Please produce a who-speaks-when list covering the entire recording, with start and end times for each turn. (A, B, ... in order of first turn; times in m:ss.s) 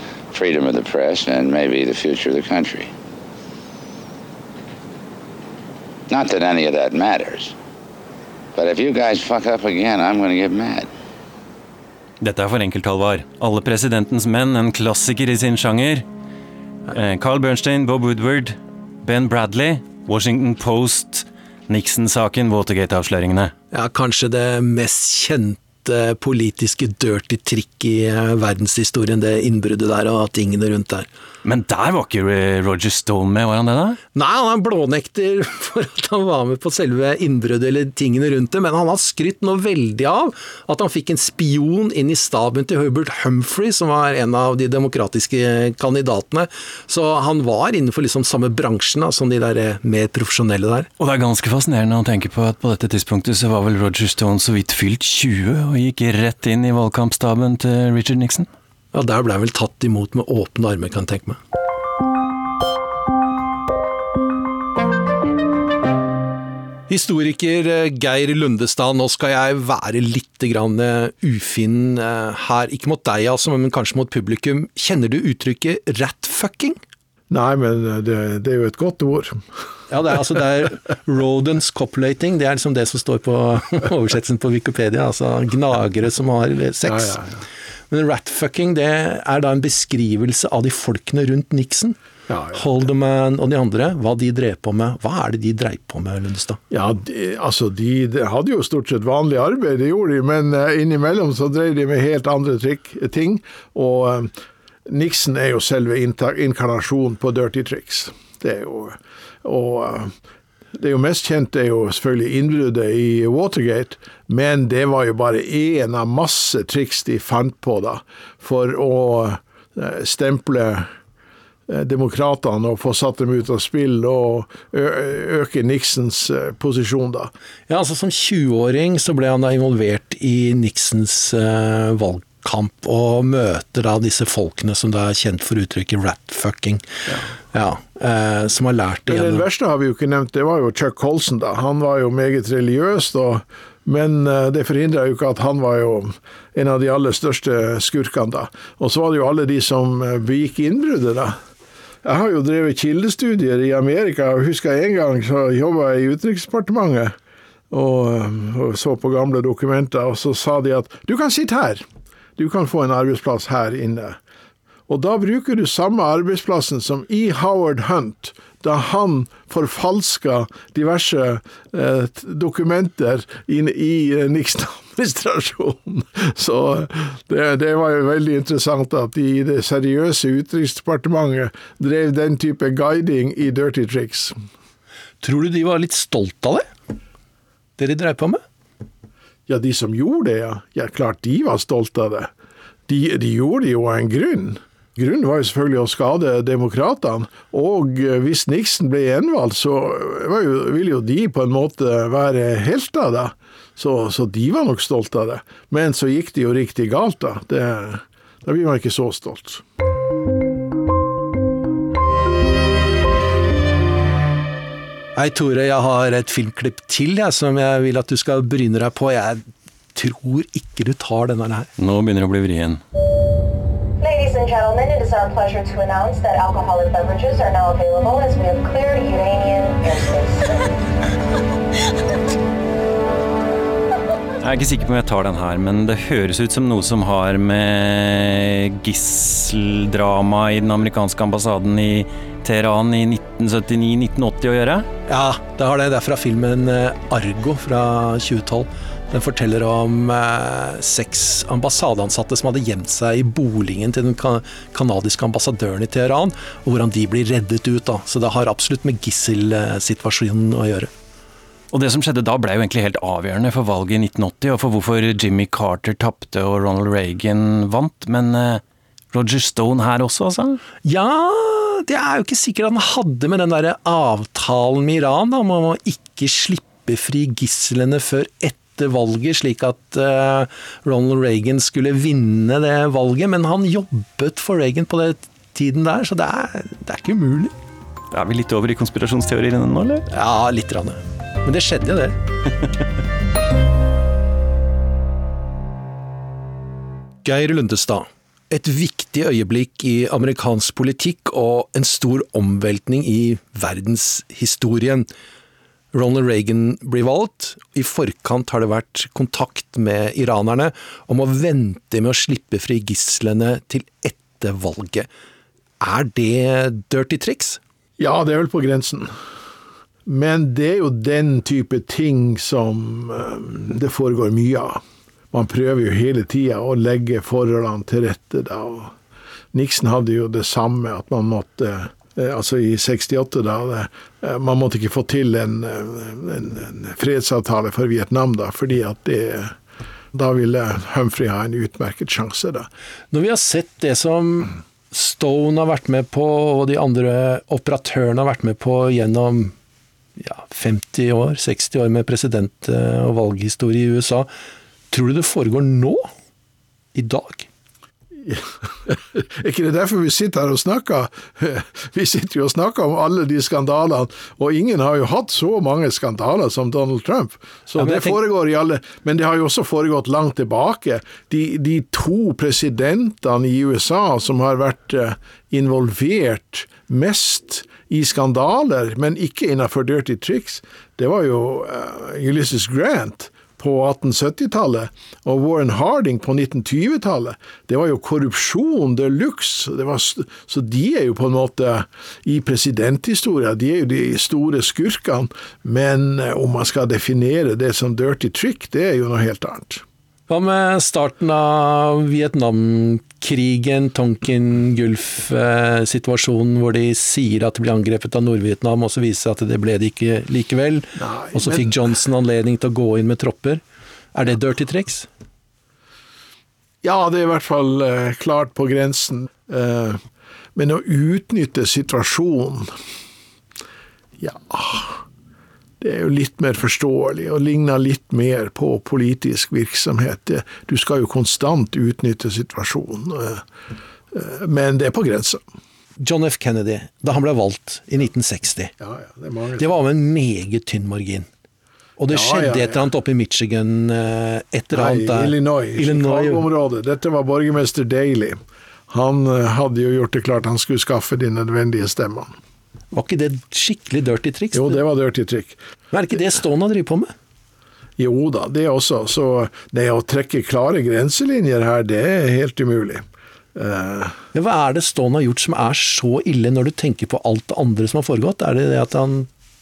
0:00.3-0:02.9 A
0:06.1-0:07.5 A
0:08.6-0:10.9 A
0:12.2-0:16.0 B
0:16.9-0:23.5 B
0:23.7-0:31.1 C
0:31.4-0:34.0 B
0:34.1-0:50.9 C
0:51.0-0:58.5 B
0:58.9-1:01.4 C
1:06.9-1:16.8 C
1:17.3-1:19.4 D
1:19.9-1:27.2 C
1:26.8-1:27.4 D
1:27.9-1:32.0 C
1:32.3-1:32.8 D
1:32.5-1:36.6 C
1:36.7-1:44.3 D
1:44.9-1:50.1 D
1:50.7-2:00.9 D
2:01.7-2:07.3 D
2:07.7-2:16.8 C
2:17.5-2:19.4 C
2:19.1-2:31.4 D
2:32.0-2:37.2 D
2:37.7-2:41.8 D
2:42.4-2:44.2 D
2:44.9-3:04.3 D
3:05.2-3:06.6 C
3:07.8-3:08.4 C
3:09.5-3:12.3 D
3:12.9-3:29.6 D
3:35.2-3:39.4 C
3:39.9-3:41.7 C
3:41.8-3:42.8 B
3:44.0-3:50.7 E
3:54.4-4:04.9 B
4:05.1-4:20.9 C
4:21.7-4:28.6 B
4:29.1-4:30.6 B
4:30.8-4:47.5 C
4:48.1-4:50.0 B
4:50.1-4:52.2 C
4:57.2-5:05.1 C
5:05.9-5:15.1 C
5:15.8-5:17.6 C
5:18.0-5:19.1 D
5:20.0-5:24.8 D
5:25.3-5:28.9 D
5:29.5-5:39.6 D
5:40.1-5:42.7 D
5:43.1-5:49.5 C
5:50.2-5:54.3 C
5:54.9-5:56.1 C
5:56.9-5:57.5 C
5:58.2-6:39.8 D
6:07.7-6:08.2 C
6:40.3-6:53.6 C
6:51.0-6:51.8 D
6:54.1-6:55.1 C
6:56.8-7:00.0 D
7:00.6-7:02.7 D
7:04.2-7:05.0 D
7:05.8-7:13.4 D
7:14.1-7:15.4 D
7:16.0-7:18.7 C
7:18.8-7:19.8 D
7:19.6-7:21.3 C
7:22.0-7:26.5 C
7:22.1-7:22.8 D
7:24.7-7:32.3 D
7:32.9-7:34.8 C
7:34.5-7:35.6 D
7:35.9-7:37.1 C
7:38.0-7:43.0 D
7:43.6-7:44.2 D
7:44.3-7:49.3 C